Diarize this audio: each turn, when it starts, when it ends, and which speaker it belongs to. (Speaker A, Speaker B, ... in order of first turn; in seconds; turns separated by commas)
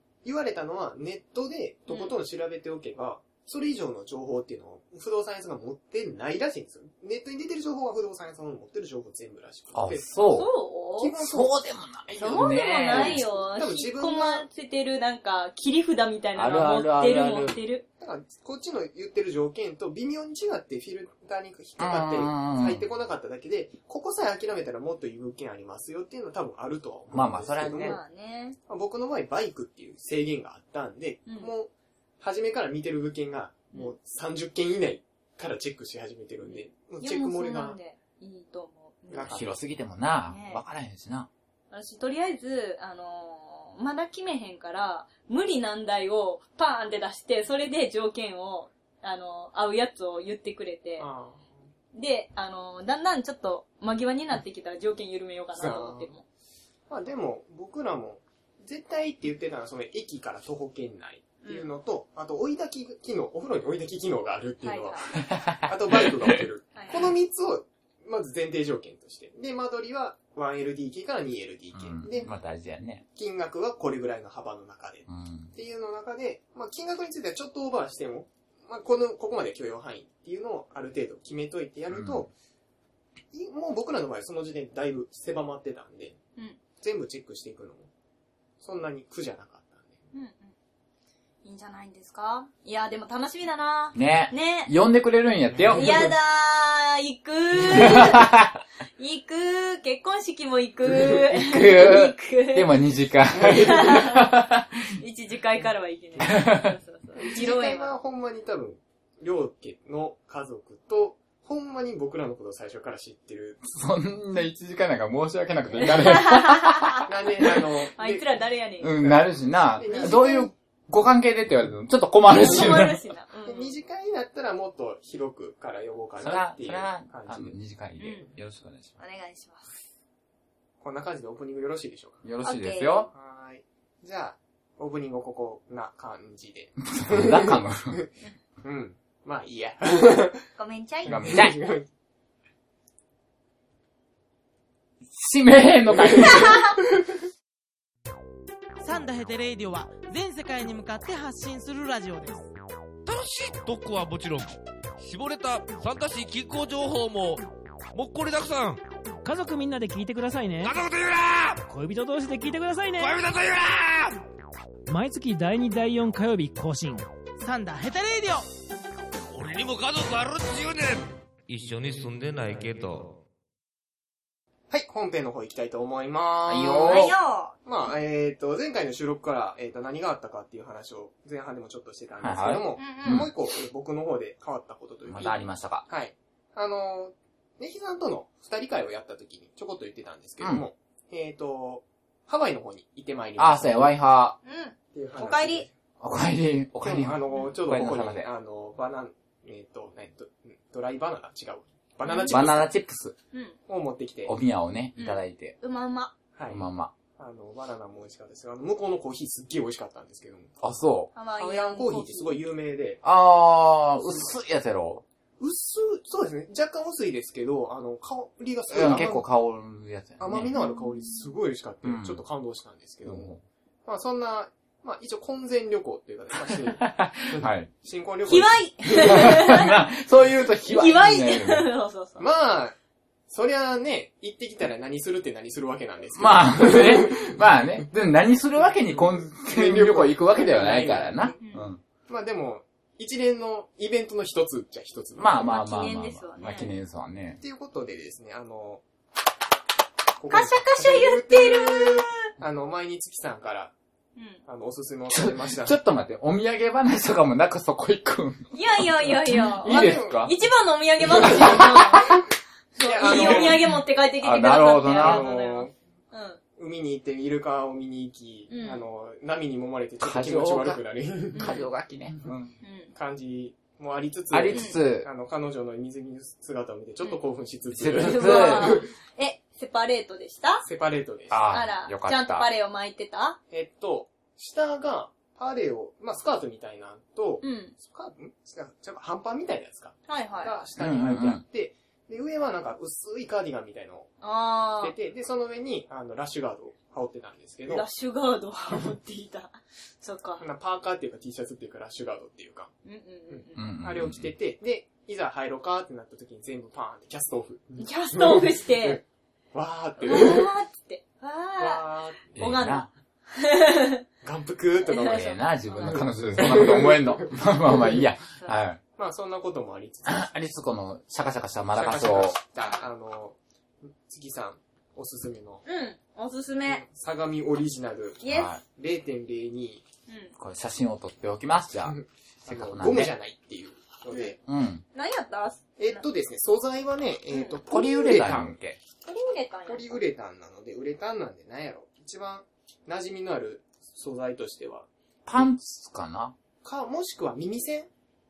Speaker A: 0.2-10.3, Speaker B: 1.9-2.1, Speaker C: 9.7-10.5, Speaker B: 10.3-11.1, Speaker A: 11.0-11.6, Speaker C: 11.2-13.2, Speaker A: 12.1-14.4, Speaker B: 12.2-17.8, Speaker C: 16.4-17.6, Speaker A: 18.0-28.0, Speaker C: 21.8-22.9, Speaker C: 27.1-28.0, Speaker B: 27.8-28.6, Speaker A: 28.7-37.8, Speaker B: 36.4-39.4, Speaker A: 39.1-39.5, Speaker C: 39.3-41.3, Speaker B: 40.3-40.6, Speaker B: 41.7-51.1, Speaker A: 51.0-51.5, Speaker B: 51.9-56.2, Speaker A: 55.5-56.1, Speaker A: 56.9-72.3, Speaker B: 61.4-61.7, Speaker B: 64.6-65.1, Speaker C: 65.3-65.6, Speaker B: 66.7-67.1, Speaker C: 71.7-73.0, Speaker A: 73.2-82.3, Speaker C: 75.1-75.5, Speaker C: 81.9-82.3, Speaker A: 83.3-86.2, Speaker A: 86.8-87.9, Speaker A: 88.6-90.0, Speaker B: 90.1-90.5, Speaker B: 91.4-94.7, Speaker C: 93.9-96.1, Speaker A: 95.6-96.0, Speaker B: 95.7-98.2, Speaker C: 97.7-98.6, Speaker B: 99.0-102.7, Speaker C: 101.3-104.9, Speaker B: 103.6-104.3, Speaker B: 105.0-107.9, Speaker C: 106.2-106.7, Speaker A: 107.1-113.6, Speaker C: 113.6-117.0, Speaker B: 115.8-117.0, Speaker A: 117.1-118.3, Speaker B: 118.0-118.9, Speaker C: 118.8-123.0, Speaker A: 119.0-120.5, Speaker B: 119.9-120.1, Speaker B: 122.4-123.7, Speaker A: 123.5-127.5, Speaker C: 126.2-129.0, Speaker B: 128.0-128.3, Speaker B: 129.0-129.8, Speaker A: 130.8-132.2, Speaker C: 132.2-133.1, Speaker B: 132.4-133.1, Speaker A: 133.1-138.1, Speaker C: 136.8-138.0, Speaker A: 138.6-140.5, Speaker B: 140.6-141.2, Speaker C: 141.0-141.6, Speaker A: 141.0-141.9, Speaker C: 145.0-146.8, Speaker A: 145.9-146.5, Speaker B: 146.4-146.7, Speaker D: 148.8-152.5, Speaker E: 153.1-158.8, Speaker F: 159.2-160.8, Speaker E: 160.6-161.6, Speaker F: 161.7-163.2, Speaker E: 163.0-164.2, Speaker F: 164.9-167.1, Speaker D: 167.4-168.5, Speaker E: 169.3-173.2, Speaker A: 174.7-177.1, Speaker C: 176.5-177.1, Speaker B: 176.8-177.5, Speaker A: 177.6-193.9, Speaker C: 182.2-183.3, Speaker B: 182.8-183.3, Speaker C: 185.1-185.8, Speaker C: 190.4-190.7, Speaker C: 193.4-194.4, Speaker B: 194.4-195.7, Speaker A: 194.9-195.7, Speaker C: 196.0-198.3, Speaker A: 196.8-202.7, Speaker B: 202.0-202.4, Speaker C: 202.3-203.1, Speaker A: 203.7-204.3, Speaker C: 204.2-205.5, Speaker B: 204.9-206.1, Speaker A: 206.3-206.7, Speaker C: 206.5-206.9, Speaker A: 207.2-210.5, Speaker C: 210.6-211.1, Speaker B: 211.1-212.3, Speaker A: 211.4-213.0, Speaker C: 213.0-215.0, Speaker A: 215.4-219.2, Speaker C: 218.7-220.5, Speaker A: 220.2-223.3, Speaker B: 220.6-221.3, Speaker C: 221.8-222.2, Speaker C: 223.0-223.4, Speaker A: 223.8-229.3, Speaker C: 226.5-227.7, Speaker B: 228.3-229.7, Speaker C: 228.9-231.7, Speaker B: 230.7-232.2, Speaker A: 232.2-232.7, Speaker A: 233.3-237.4, Speaker C: 236.1-241.8, Speaker A: 238.8-241.4, Speaker B: 241.4-241.7, Speaker A: 242.1-245.5, Speaker C: 245.2-247.4, Speaker B: 245.4-246.7, Speaker A: 247.4-248.8, Speaker A: 250.2-253.7, Speaker B: 250.3-252.3, Speaker B: 254.2-254.4, Speaker A: 254.4-255.8, Speaker C: 255.1-260.3, Speaker B: 258.5-262.2, Speaker A: 259.6-260.3, Speaker C: 261.0-262.1, Speaker A: 261.2-261.5, Speaker B: 262.8-266.4, Speaker A: 262.8-263.7, Speaker C: 263.0-265.3, Speaker A: 264.9-265.7, Speaker A: 266.6-271.5, Speaker B: 268.5-268.8, Speaker C: 270.0-270.8, Speaker B: 271.3-271.6, Speaker C: 271.3-272.5, Speaker B: 272.6-272.9, Speaker A: 272.9-278.9, Speaker C: 274.3-275.1, Speaker C: 277.7-278.8, Speaker B: 278.0-280.6, Speaker A: 280.6-281.5, Speaker C: 281.3-282.5, Speaker B: 281.5-283.4, Speaker A: 283.5-294.1, Speaker B: 287.4-287.7, Speaker B: 290.1-290.6, Speaker C: 290.8-291.4, Speaker B: 294.2-294.9, Speaker A: 294.8-297.8, Speaker B: 297.7-300.4, Speaker A: 300.4-302.7, Speaker B: 302.8-303.6, Speaker A: 303.3-309.0, Speaker C: 303.5-304.3, Speaker B: 307.8-309.0, Speaker A: 309.5-310.5, Speaker B: 310.0-314.0, Speaker A: 311.6-312.6, Speaker C: 312.3-312.9, Speaker A: 314.2-318.0, Speaker B: 315.0-316.0, Speaker C: 315.0-318.8, Speaker A: 318.9-320.3, Speaker C: 320.1-322.4, Speaker A: 321.7-325.6, Speaker B: 322.6-322.9, Speaker B: 325.6-326.8, Speaker A: 326.6-329.8, Speaker B: 328.2-328.5, Speaker C: 328.3-328.6, Speaker B: 330.1-330.3, Speaker C: 330.4-333.1, Speaker A: 331.8-334.4, Speaker C: 334.4-334.8, Speaker B: 334.9-336.0, Speaker A: 335.8-338.5, Speaker B: 337.3-337.6, Speaker C: 337.7-338.8, Speaker B: 339.0-340.0, Speaker A: 339.6-345.5, Speaker C: 345.2-346.3, Speaker A: 346.6-347.9